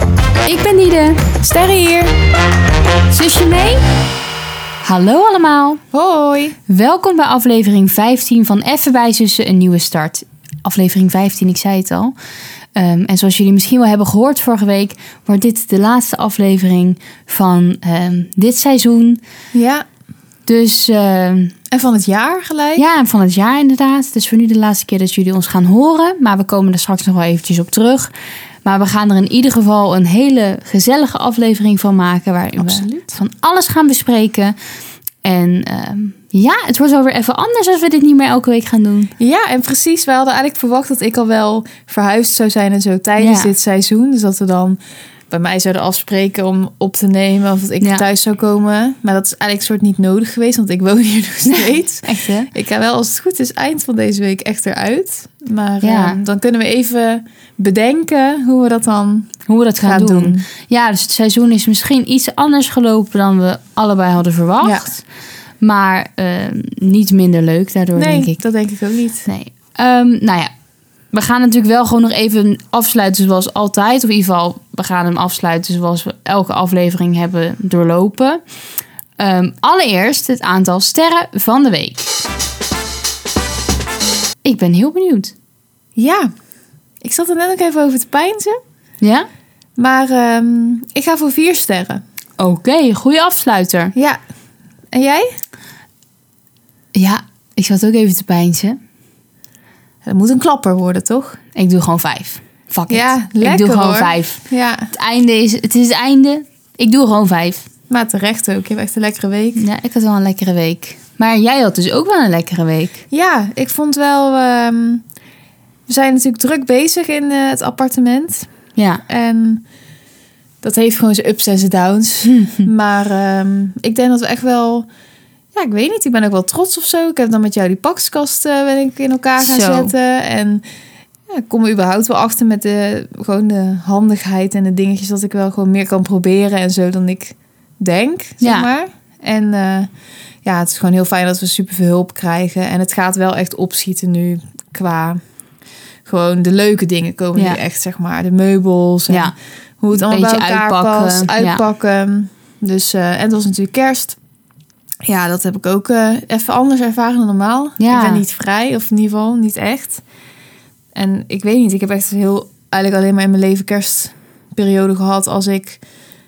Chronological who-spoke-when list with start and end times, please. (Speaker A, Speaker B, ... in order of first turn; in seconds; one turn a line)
Speaker A: 0.4-1.2
Speaker B: 1.4-2.1
Speaker A: 3.1-3.8
Speaker A: 4.8-5.8
Speaker B: 5.9-6.6
Speaker A: 6.7-12.2
Speaker A: 12.8-19.2
Speaker B: 19.5-19.9
Speaker A: 20.5-21.5
Speaker B: 21.7-22.8
Speaker A: 22.8-28.1
Speaker A: 28.6-34.5
Speaker B: 32.6-33.2
Speaker A: 35.2-39.1
Speaker B: 39.2-44.8
Speaker A: 43.2-43.5
Speaker B: 45.3-60.5
Speaker A: 51.5-52.5
Speaker A: 55.8-56.2
Speaker A: 59.5-65.0
Speaker A: 65.6-68.4
Speaker B: 68.0-69.3
Speaker A: 69.3-70.5
Speaker A: 71.1-78.4
Speaker A: 79.2-82.2
Speaker A: 84.5-85.3
Speaker B: 86.0-86.3
Speaker B: 87.0-88.6
Speaker A: 89.0-89.3
Speaker B: 89.8-92.0
Speaker A: 92.4-93.9
Speaker B: 93.9-94.2
Speaker B: 94.9-95.3
Speaker A: 96.9-98.8
Speaker B: 100.0-101.4
Speaker A: 101.5-104.4
Speaker B: 102.9-104.9
Speaker A: 104.9-107.7
Speaker B: 107.9-109.6
Speaker A: 109.6-113.0
Speaker B: 113.1-115.0
Speaker B: 115.9-118.5
Speaker A: 118.8-119.0
Speaker B: 119.1-119.6
Speaker B: 120.6-124.9
Speaker A: 122.3-122.6
Speaker B: 125.5-130.6
Speaker A: 129.4-129.9
Speaker B: 131.3-139.9
Speaker A: 138.4-138.7
Speaker B: 140.4-145.2
Speaker B: 146.1-154.2
Speaker A: 149.1-149.3
Speaker A: 149.9-151.6
Speaker B: 155.1-160.0
Speaker A: 157.8-158.2
Speaker B: 160.9-165.8